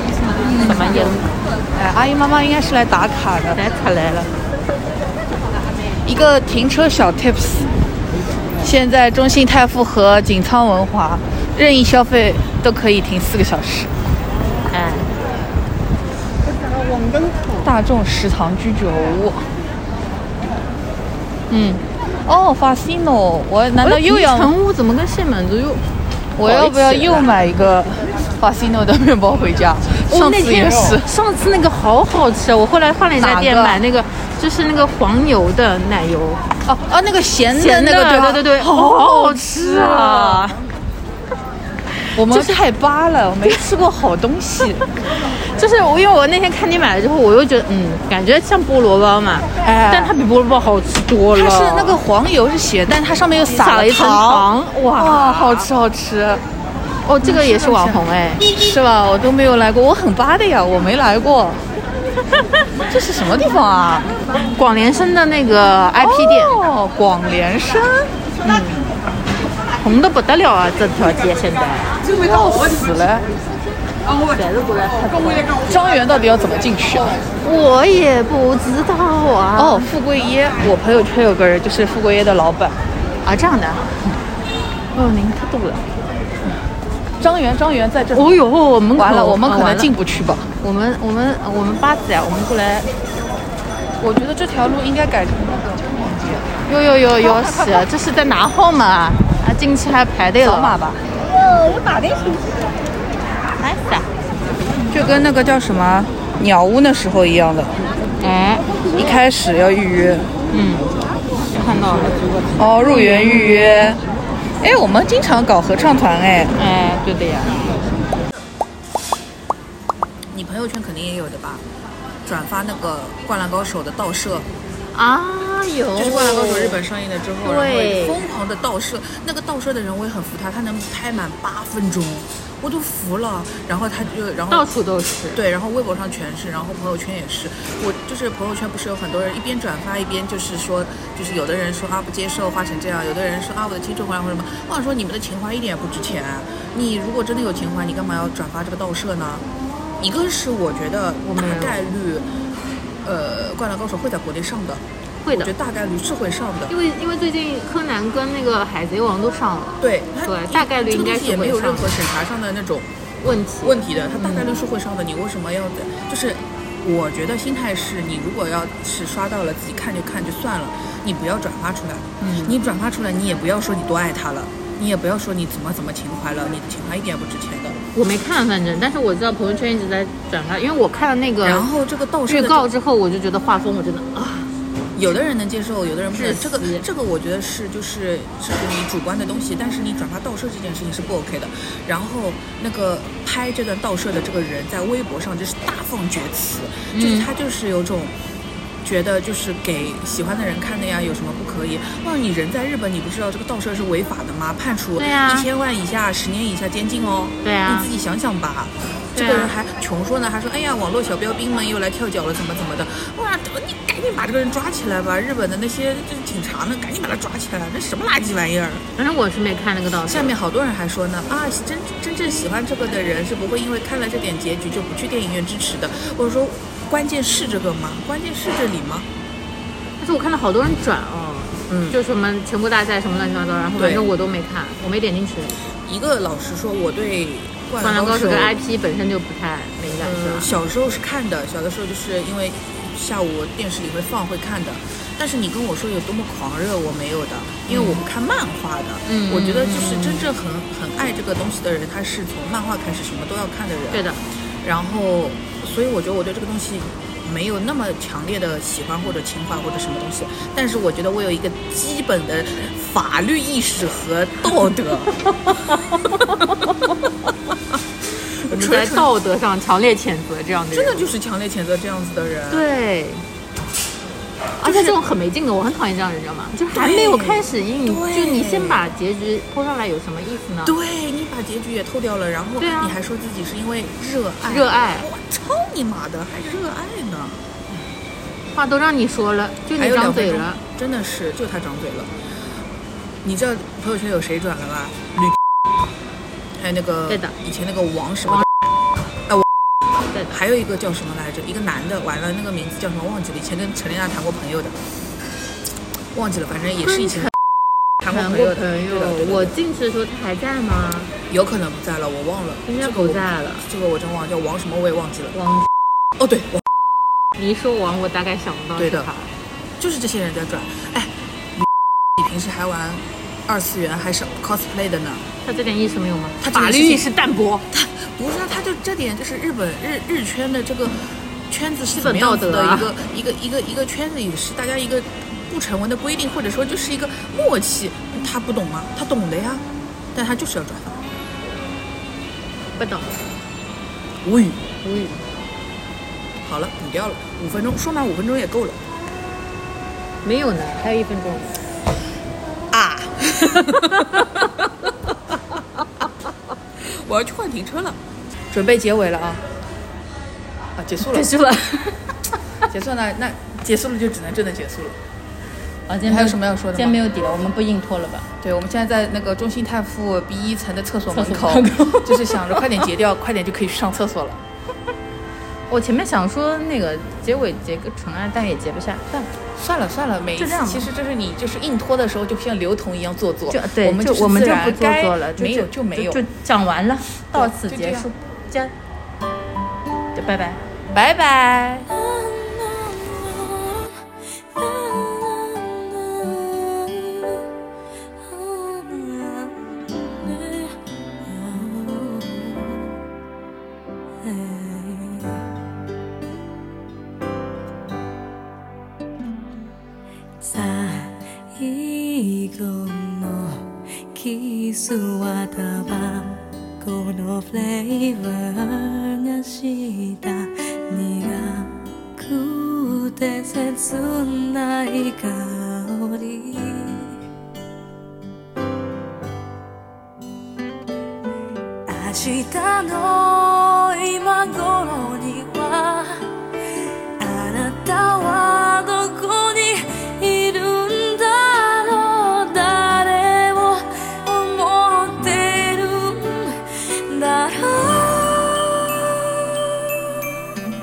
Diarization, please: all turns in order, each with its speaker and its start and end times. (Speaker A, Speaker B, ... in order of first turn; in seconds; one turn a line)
Speaker A: 0.4-3.6
Speaker B: 0.4-1.3
Speaker B: 3.5-4.3
Speaker A: 6.1-7.8
Speaker A: 8.6-13.9
Speaker B: 14.7-15.1
Speaker A: 17.5-19.5
Speaker B: 21.5-21.8
Speaker A: 22.2-24.5
Speaker B: 23.8-25.8
Speaker A: 26.4-31.1
Speaker B: 26.4-27.3
Speaker B: 30.1-36.4
Speaker A: 33.2-33.8
Speaker A: 36.6-40.6
Speaker B: 37.5-40.5
Speaker B: 42.1-42.5
Speaker A: 42.1-44.9
Speaker B: 45.2-52.0
Speaker A: 49.6-50.1
Speaker A: 51.3-56.4
Speaker B: 53.6-55.7
Speaker B: 57.1-58.5
Speaker A: 57.2-61.7
Speaker A: 62.9-64.1
Speaker B: 64.5-66.6
Speaker A: 66.0-68.6
Speaker B: 68.4-68.9
Speaker B: 69.8-72.0
Speaker A: 72.0-73.3
Speaker B: 74.2-75.5
Speaker A: 75.0-77.2
Speaker B: 77.4-79.9
Speaker A: 79.6-82.8
Speaker B: 83.2-84.2
Speaker B: 84.9-85.9
Speaker A: 87.2-88.4
Speaker B: 88.1-89.9
Speaker A: 89.0-90.5
Speaker B: 90.6-92.9
Speaker A: 94.0-96.5
Speaker B: 96.7-100.8
Speaker A: 100.4-101.0
Speaker B: 103.6-104.1
Speaker A: 104.9-107.8
Speaker B: 108.2-108.7
Speaker A: 108.9-110.3
Speaker B: 110.5-110.9
Speaker B: 111.5-112.3
Speaker A: 112.6-114.0
Speaker B: 112.8-113.9
Speaker A: 114.6-116.6
Speaker B: 116.5-117.8
Speaker A: 120.3-121.6
Speaker A: 122.2-124.5
Speaker B: 124.9-126.8
Speaker A: 126.0-134.7
Speaker B: 127.4-128.2
Speaker B: 134.5-135.4
Speaker A: 135.3-149.5
Speaker A: 150.0-152.3
Speaker B: 151.3-151.8
Speaker A: 153.0-156.7
Speaker B: 155.2-155.5
Speaker B: 156.7-161.9
Speaker A: 159.8-162.9
Speaker B: 163.2-164.4
Speaker A: 163.6-177.8
Speaker B: 172.2-172.5
Speaker B: 177.9-181.7
Speaker A: 181.4-182.7
Speaker B: 182.3-184.5
Speaker A: 184.9-198.1
Speaker B: 186.1-186.9
Speaker B: 196.9-197.3
Speaker A: 198.8-218.8
Speaker B: 205.0-205.5
Speaker B: 207.4-207.9
Speaker B: 209.2-209.5
Speaker B: 219.0-220.3
Speaker A: 220.1-229.1
Speaker B: 230.0-235.6
Speaker A: 231.7-232.0
Speaker A: 233.8-234.1
Speaker A: 235.8-238.6
Speaker B: 237.8-240.5
Speaker A: 240.0-254.1
Speaker B: 247.7-248.0
Speaker B: 249.1-250.3
Speaker B: 253.9-254.2
Speaker A: 254.6-265.3
Speaker B: 265.5-266.7
Speaker A: 268.3-269.1
Speaker B: 268.5-271.1
Speaker A: 270.7-272.7
Speaker B: 272.5-273.2
Speaker B: 274.6-280.8
Speaker A: 274.6-275.0
Speaker A: 276.7-278.9
Speaker A: 280.6-287.4
Speaker B: 282.6-282.9
Speaker B: 284.5-285.1
Speaker B: 288.5-290.6
Speaker A: 289.8-292.1
Speaker A: 293.2-295.4
Speaker A: 296.6-298.5
Speaker B: 297.1-297.3
Speaker B: 300.1-300.4
Speaker A: 300.3-304.8
Speaker A: 306.1-307.4
Speaker B: 306.8-307.3
Speaker A: 308.0-309.6
Speaker B: 308.1-311.1
Speaker A: 311.3-316.7
Speaker B: 312.7-313.7
Speaker B: 317.4-319.3
Speaker A: 318.8-319.1
Speaker A: 319.8-325.3
Speaker B: 325.4-327.7
Speaker A: 326.4-327.1
Speaker A: 327.7-341.0
Speaker B: 331.9-332.9
Speaker B: 342.8-343.2
Speaker A: 344.2-344.6
Speaker B: 344.8-345.2
Speaker A: 346.4-348.8
Speaker B: 350.2-351.6
Speaker A: 352.7-356.1
Speaker B: 353.4-354.3
Speaker A: 356.8-358.0
Speaker A: 358.5-359.4
Speaker A: 360.8-361.3
Speaker B: 361.0-362.1
Speaker A: 362.7-365.0
Speaker B: 365.9-368.3
Speaker A: 366.1-367.0
Speaker A: 368.4-374.4
Speaker B: 371.1-372.4
Speaker B: 375.7-379.3
Speaker A: 379.6-386.2
Speaker B: 380.4-380.9
Speaker B: 383.5-388.7
Speaker A: 387.3-388.1
Speaker B: 390.1-391.9
Speaker C: 391.9-394.0
Speaker C: 394.5-397.4
Speaker C: 398.2-403.0
Speaker C: 404.2-405.5
Speaker C: 410.4-427.2
Speaker C: 431.9-436.3
Speaker C: 437.2-449.6